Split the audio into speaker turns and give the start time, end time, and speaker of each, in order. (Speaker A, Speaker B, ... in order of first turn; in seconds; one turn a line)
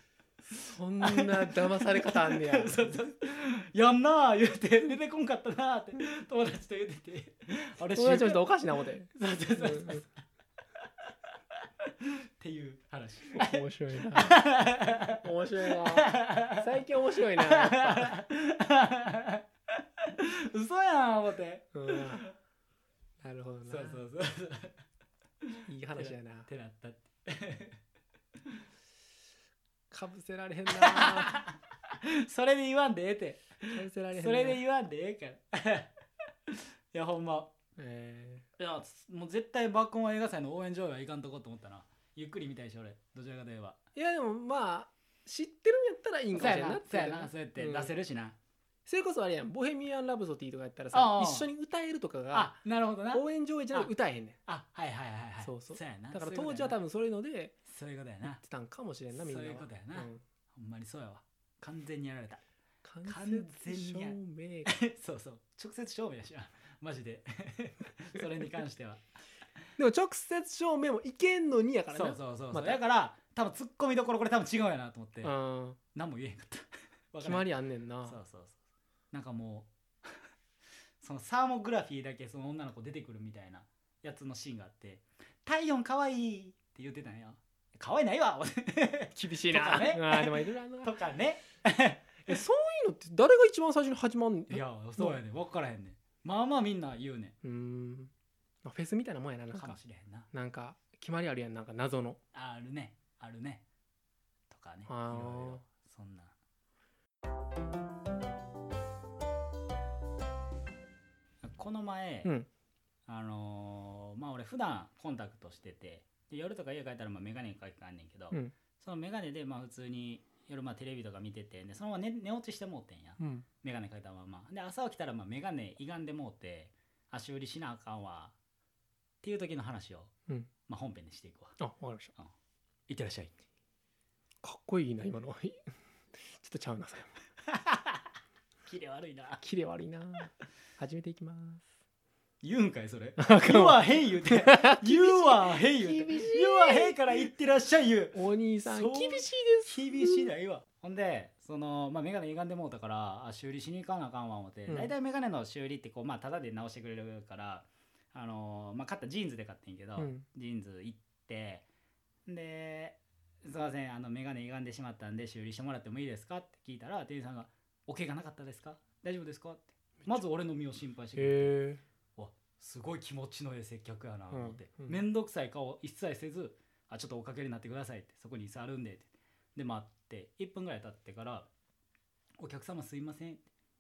Speaker A: 0.5-3.0
Speaker B: 1.0-8.5
Speaker A: 7.9-10.1
Speaker B: 9.2-10.1
Speaker B: 11.8-16.7
Speaker A: 13.3-14.4
Speaker A: 15.2-18.1
Speaker B: 17.3-19.4
Speaker B: 20.0-22.3
Speaker A: 21.7-22.3
Speaker A: 23.2-24.0
Speaker B: 23.7-24.8
Speaker B: 25.4-27.8
Speaker A: 25.7-26.5
Speaker A: 29.9-31.3
Speaker B: 30.8-35.9
Speaker A: 33.7-34.6
Speaker B: 36.5-37.5
Speaker A: 37.8-38.5
Speaker B: 38.6-43.8
Speaker A: 44.0-47.9
Speaker B: 46.3-48.4
Speaker A: 48.9-52.5
Speaker B: 50.9-51.5
Speaker B: 52.3-53.9
Speaker A: 53.1-54.4
Speaker B: 54.5-56.8
Speaker A: 55.4-57.6
Speaker B: 57.6-58.4
Speaker A: 58.4-60.2
Speaker B: 59.1-62.4
Speaker A: 62.8-64.8
Speaker B: 63.1-69.0
Speaker A: 69.8-72.8
Speaker B: 71.9-75.3
Speaker A: 75.2-75.8
Speaker B: 75.9-77.5
Speaker A: 77.2-78.2
Speaker B: 78.1-78.6
Speaker B: 79.1-80.1
Speaker B: 81.0-92.4
Speaker A: 89.2-90.9
Speaker A: 92.3-95.2
Speaker B: 94.5-97.3
Speaker A: 97.4-98.1
Speaker A: 98.6-99.8
Speaker B: 99.5-100.3
Speaker A: 100.3-102.2
Speaker B: 102.3-103.6
Speaker B: 104.5-106.3
Speaker A: 104.9-105.6
Speaker B: 111.4-112.3
Speaker A: 112.2-112.5
Speaker B: 113.1-128.3
Speaker A: 123.2-123.5
Speaker B: 129.2-130.1
Speaker B: 130.7-131.6
Speaker A: 131.6-132.1
Speaker B: 132.9-133.3
Speaker A: 134.4-135.6
Speaker A: 136.2-137.1
Speaker B: 137.5-138.0
Speaker B: 138.7-139.4
Speaker A: 139.4-141.7
Speaker B: 142.4-161.7
Speaker A: 143.2-147.0
Speaker A: 148.1-150.3
Speaker A: 160.0-160.2
Speaker B: 162.3-171.6
Speaker A: 171.2-171.8
Speaker B: 172.2-181.5
Speaker A: 174.3-175.0
Speaker B: 182.4-183.4